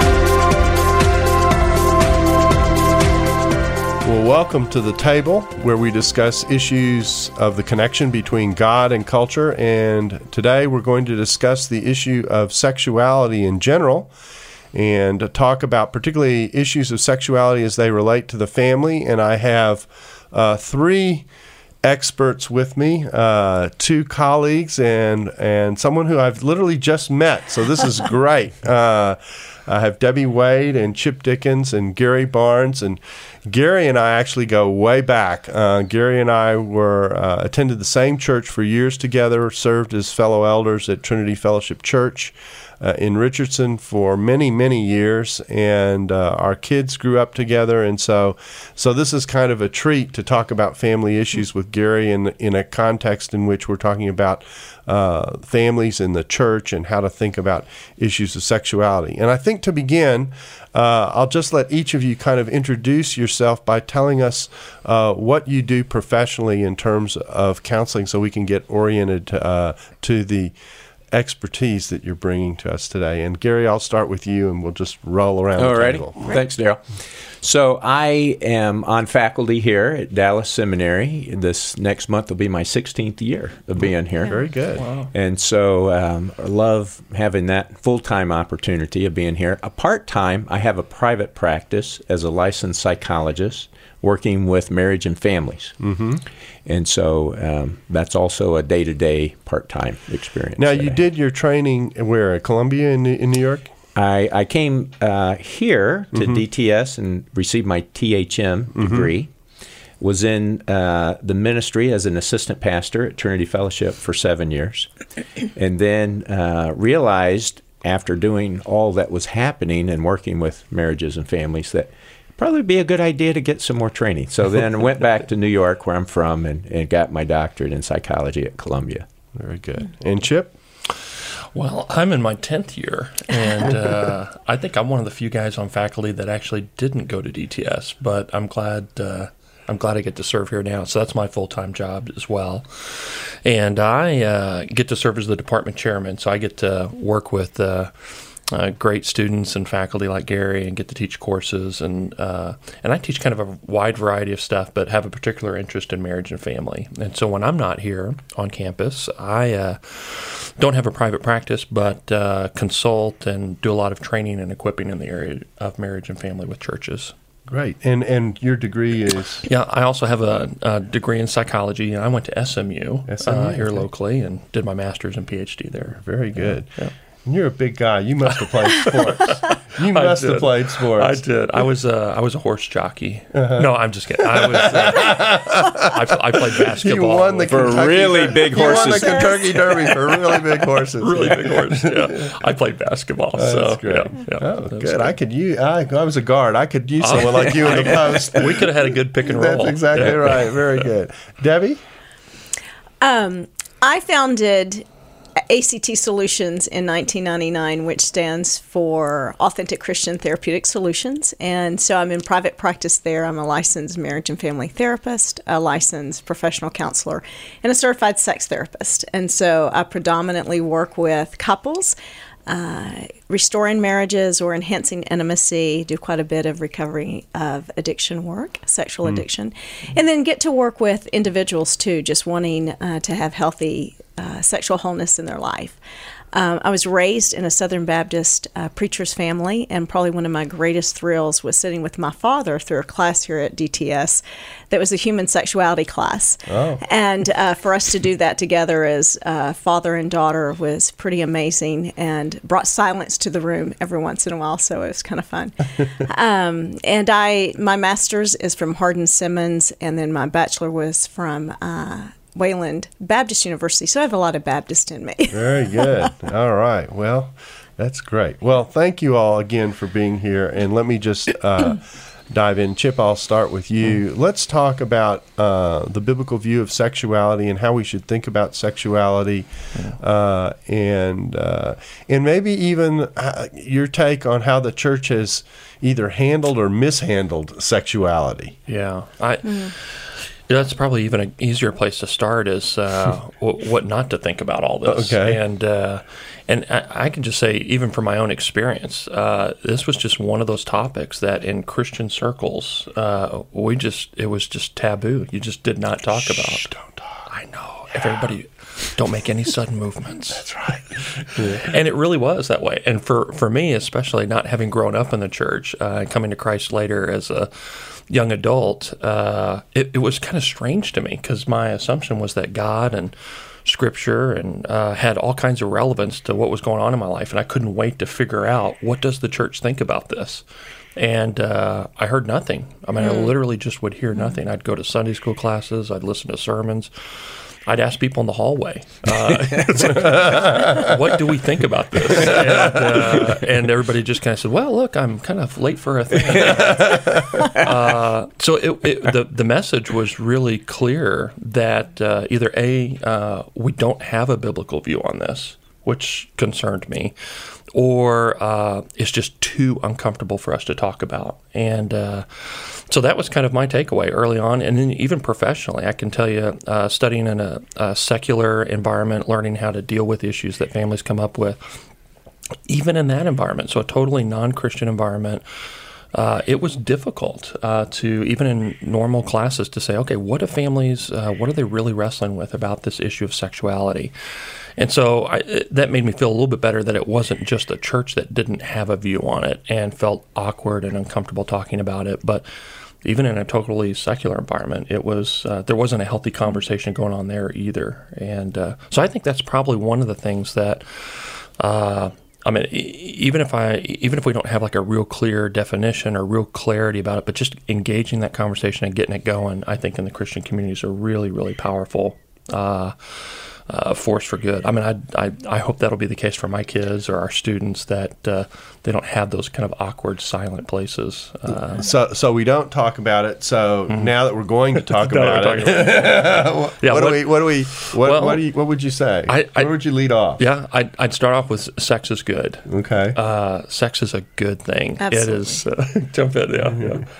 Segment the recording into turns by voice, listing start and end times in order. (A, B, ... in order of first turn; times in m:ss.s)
0:04.0-0:14.1 A
0:14.7-0:21.3 A
0:21.8-1:10.5 A
1:11.1-1:16.2 A
1:15.6-1:24.4 B
1:24.2-1:24.9 A
1:24.8-1:25.1 C
1:25.1-1:35.8 B
1:35.8-1:36.2 A
1:36.6-1:41.0 B
1:40.6-1:43.7 A
1:43.9-1:49.3 B
1:46.1-1:46.4 A
1:48.8-1:49.1 A
1:50.0-1:54.9 B
1:55.5-2:09.0 B
2:09.4-2:10.5 A
2:11.5-2:47.1 C
2:47.5-2:49.4 A
2:49.4-2:56.9 C
2:53.1-2:53.9 A
2:55.9-3:01.2 A
2:58.4-3:08.0 C
3:03.3-3:12.4 A
3:07.5-3:10.0 B
3:08.7-3:09.0 D
3:11.0-3:15.1 C
3:13.3-3:21.8 A
3:17.0-3:20.8 C
3:23.0-3:24.8 D
3:25.5-3:42.0 D
3:42.5-3:55.8 D
3:56.3-4:25.9 D
4:06.5-4:06.8 A
4:25.3-4:48.6 A
4:48.7-5:06.7 C
4:54.8-4:55.4 A
5:06.1-5:07.2 A
5:07.3-5:30.4 C
5:07.9-5:08.3 A
5:10.4-5:11.7 A
5:31.0-5:36.9 C
5:33.0-5:33.4 D
5:37.6-5:57.1 C
5:39.4-5:39.6 B
5:40.1-5:40.8 A
5:57.7-6:11.8 C
6:12.7-6:15.4 C
6:16.1-6:24.1 C
6:24.8-6:32.4 C
6:33.0-7:01.9 C
7:01.7-7:10.4 A
7:04.8-7:08.4 C
7:09.3-7:09.7 C
7:10.4-7:17.1 C
7:12.7-7:13.2 A
7:15.0-7:15.6 D
7:16.7-7:17.0 A